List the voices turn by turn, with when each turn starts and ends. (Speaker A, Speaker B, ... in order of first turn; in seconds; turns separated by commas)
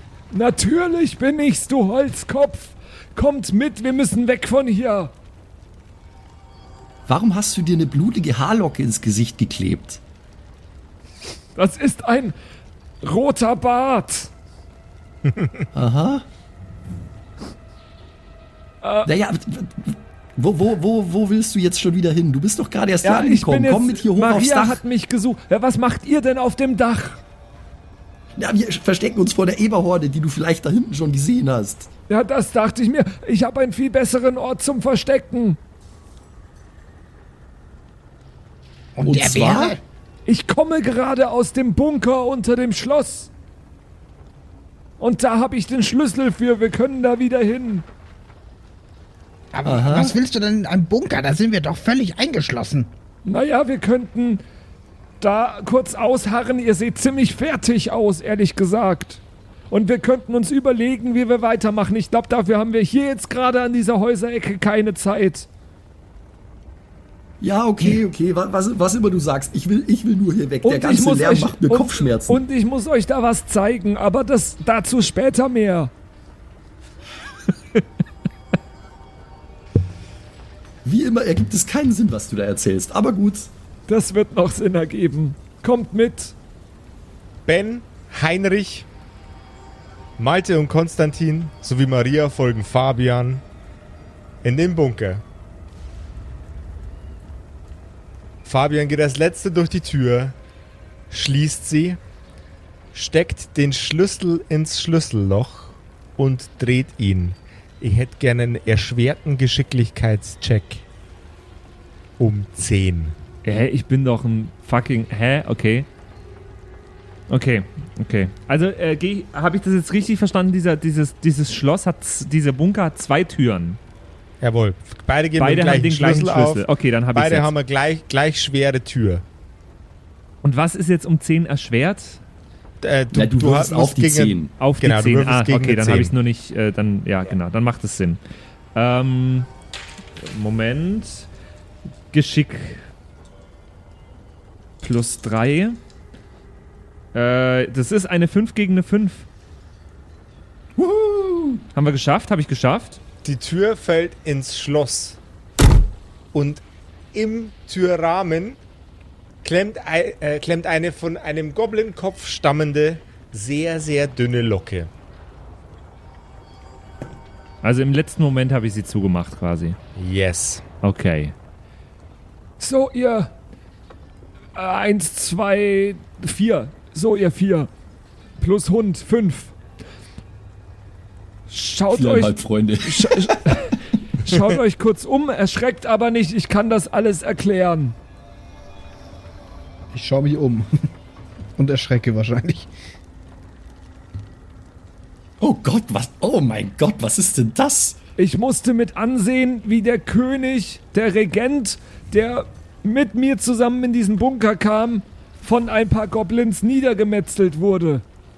Speaker A: 0.3-5.1, Speaker B: 7.1-10.0, Speaker A: 11.6-12.3, Speaker A: 13.0-14.3, Speaker B: 15.7-16.2, Speaker A: 18.8-19.1, Speaker B: 19.1-24.8, Speaker A: 23.0-27.2, Speaker B: 28.4-31.9, Speaker A: 32.1-35.6, Speaker C: 39.0-39.8, Speaker B: 39.0-39.8, Speaker A: 40.2-43.3, Speaker A: 45.0-47.8, Speaker C: 49.5-52.9, Speaker B: 49.6-50.2, Speaker A: 53.2-54.4, Speaker A: 55.2-65.5, Speaker B: 67.4-72.4, Speaker A: 70.6-75.9, Speaker B: 80.8-83.5, Speaker A: 83.9-86.3, Speaker D: 87.5-88.9, Speaker D: 90.2-93.4, Speaker D: 94.4-95.2, Speaker D: 98.4-100.3, Speaker D: 101.1-102.0, Speaker D: 102.9-110.8, Speaker D: 112.2-113.1, Speaker E: 113.4-115.9, Speaker E: 117.3-123.8, Speaker D: 124.4-129.2, Speaker E: 125.4-127.5, Speaker E: 130.4-132.2, Speaker D: 132.8-136.1, Speaker B: 133.1-134.6, Speaker E: 134.6-138.2, Speaker E: 138.7-139.5, Speaker E: 140.2-141.3, Speaker E: 142.1-142.9, Speaker E: 144.8-145.8, Speaker E: 147.1-149.2, Speaker B: 150.8-151.6, Speaker E: 151.7-153.0, Speaker D: 153.2-155.2, Speaker D: 156.3-156.6, Speaker D: 157.1-158.6, Speaker D: 159.4-164.9, Speaker E: 167.6-169.8, Speaker D: 170.0-170.6, Speaker E: 170.8-171.3, Speaker A: 172.6-173.3, Speaker A: 174.5-177.7, Speaker A: 178.4-179.5, Speaker A: 181.5-187.9, Speaker B: 181.9-183.4, Speaker F: 189.9-190.9, Speaker F: 191.6-192.7, Speaker B: 195.4-198.0, Speaker A: 198.2-208.0